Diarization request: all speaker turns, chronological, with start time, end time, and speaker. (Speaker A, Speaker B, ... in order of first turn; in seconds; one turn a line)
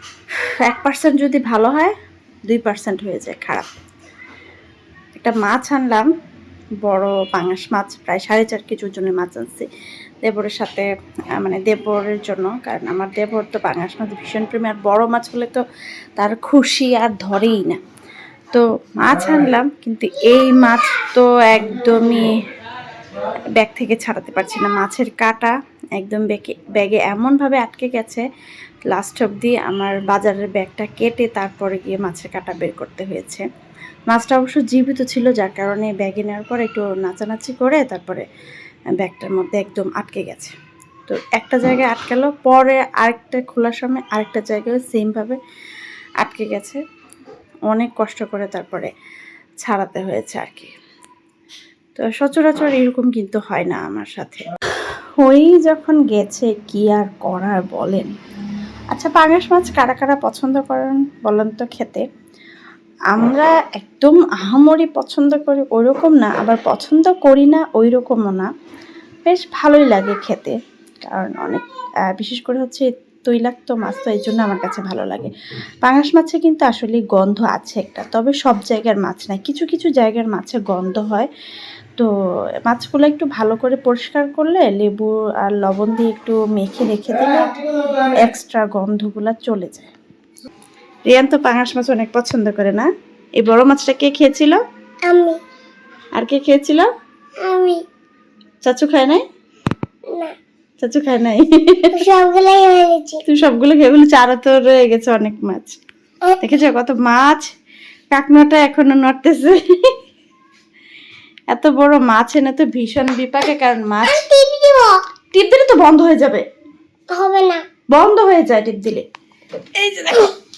Speaker A: 0.6-1.9
Speaker A: 2.5-3.7
Speaker A: 5.2-6.1
Speaker A: 6.8-9.7
Speaker A: 10.2-15.6
Speaker A: 16.2-17.8
Speaker A: 18.5-22.3
Speaker A: 23.6-28.2
Speaker A: 28.9-33.5
Speaker A: 34.1-38.2
Speaker A: 39.0-40.5
Speaker A: 41.1-45.4
Speaker A: 46.2-46.8
Speaker A: 47.7-48.9
Speaker A: 49.6-50.7
Speaker A: 52.0-54.5
Speaker A: 55.2-58.1
Speaker A: 58.9-62.0
Speaker A: 63.1-68.5
Speaker A: 69.2-75.3
Speaker A: 75.8-81.3
Speaker A: 82.7-89.9
Speaker A: 91.1-94.6
Speaker B: 95.0-95.4
Speaker A: 96.2-96.9
Speaker B: 97.4-97.8
Speaker A: 98.6-99.2
Speaker A: 100.8-102.0
Speaker B: 101.9-103.2
Speaker A: 103.2-105.8
Speaker A: 106.4-107.5
Speaker A: 108.1-109.9
Speaker A: 111.5-114.2
Speaker B: 114.0-115.0
Speaker A: 115.3-116.4
Speaker B: 117.1-117.6
Speaker A: 117.9-119.0
Speaker A: 119.8-120.3